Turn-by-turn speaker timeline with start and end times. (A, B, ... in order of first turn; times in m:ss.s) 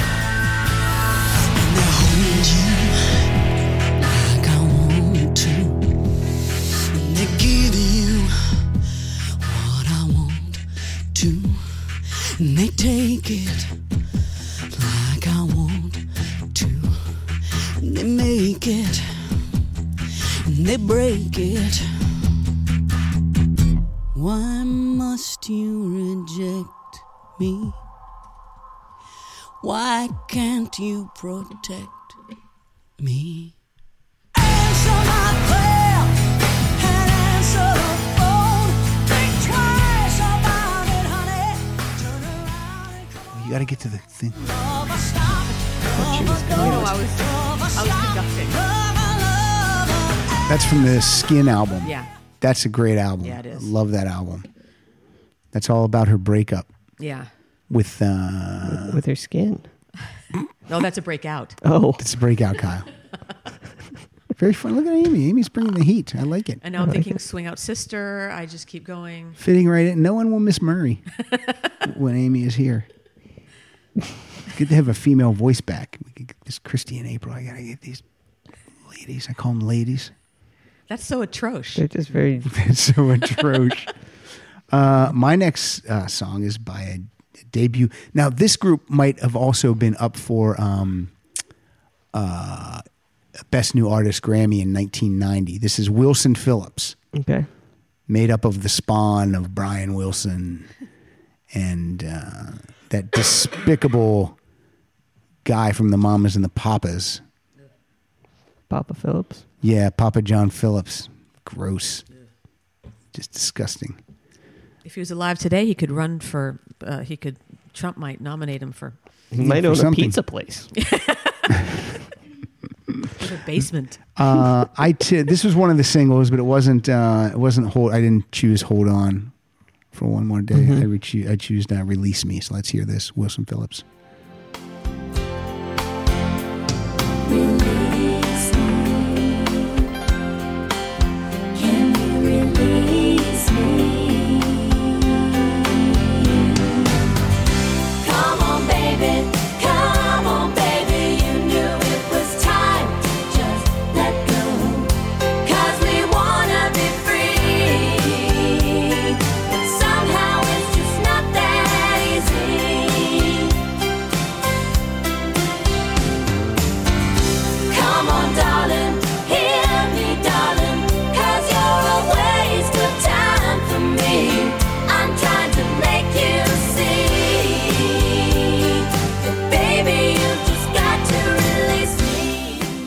0:01.6-0:03.0 A
0:04.0-0:05.8 A
0:06.9-0:08.3 A
0:09.4-0:11.8 A
0:12.4-0:13.7 A
0:14.7-0:17.2 A
0:17.8-0:19.3 A
0:20.5-0:22.1 A
0:24.1-0:27.8 A
0:29.6-0:32.1 A
0:33.0-0:33.5 A
0:34.4-0:36.2 A
0:36.8-0:43.0 A
0:43.3-0:44.5 B
0:45.1-0:45.4 A
0:45.9-0:47.0 C
0:46.3-0:48.6 D
0:48.6-0:49.9 A
0:50.5-0:54.5 B
0:51.8-0:52.1 D
0:53.2-0:53.7 D
0:55.5-0:56.7 B
0:57.0-0:57.3 D
0:57.7-0:59.0 B
0:58.6-0:59.7 C
1:00.7-1:01.6 D
1:01.6-1:02.0 C
1:02.0-1:02.9 B
1:04.4-1:06.6 B
1:06.6-1:09.4 D
1:06.8-1:07.1 C
1:09.4-1:11.0 B
1:11.8-1:12.9 B
1:14.5-1:18.0 B
1:18.9-1:20.1 B
1:20.9-1:21.8 D
1:21.8-1:22.5 C
1:22.4-1:23.9 B
1:24.7-1:31.1 B
1:32.1-1:32.8 B
1:33.5-1:37.0 B
1:37.1-1:37.5 C
1:38.1-1:40.7 B
1:41.5-1:44.4 B
1:45.4-1:47.2 B
1:48.7-1:49.4 C
1:49.6-1:52.0 B
1:53.1-1:54.0 B
1:54.8-1:59.0 D
1:59.3-2:00.7 C
1:59.4-2:00.2 B
2:00.8-2:01.6 D
2:03.2-2:04.0 D
2:04.2-2:09.3 B
2:09.9-2:13.8 B
2:10.5-2:10.8 C
2:17.5-2:18.5 E
2:21.6-2:24.2 E
2:28.0-2:34.9 E
2:35.5-2:37.5 E
2:39.5-2:42.9 E
2:47.8-2:57.7 E
2:59.4-3:02.5 E